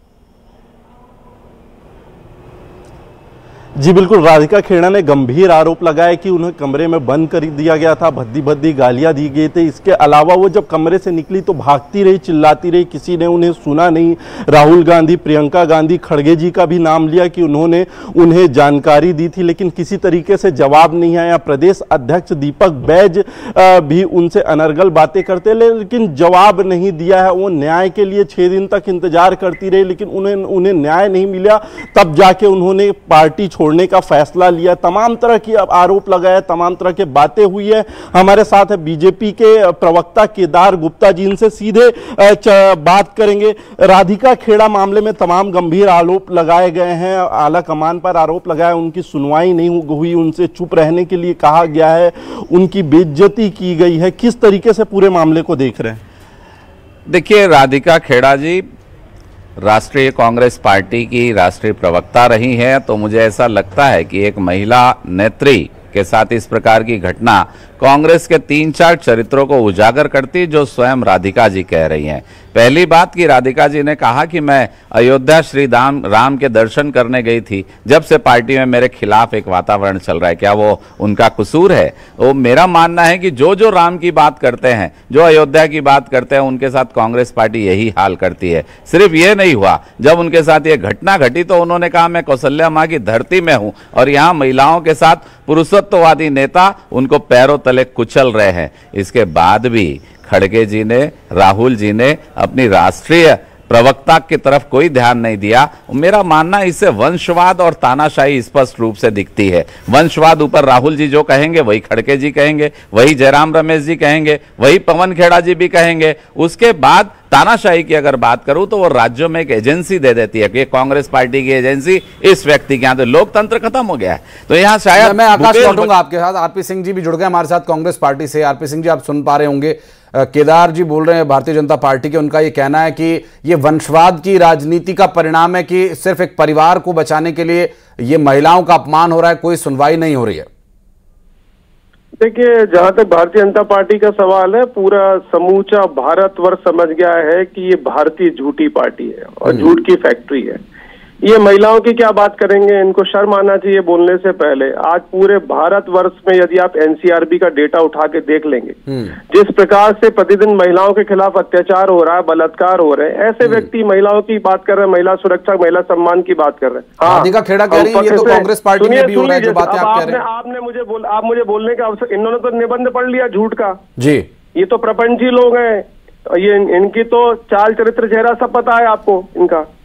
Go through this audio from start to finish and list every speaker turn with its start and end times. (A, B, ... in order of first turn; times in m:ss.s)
0:03.8-0:56.0 A
0:57.1-0:58.6 B
0:59.6-2:05.9 B
2:05.0-2:20.5 C
2:22.2-2:30.6 D
2:29.5-2:29.7 C
2:31.3-2:38.8 D
2:39.3-2:53.8 D
2:47.0-2:50.2 C
2:54.0-2:54.3 C
2:54.6-2:59.7 D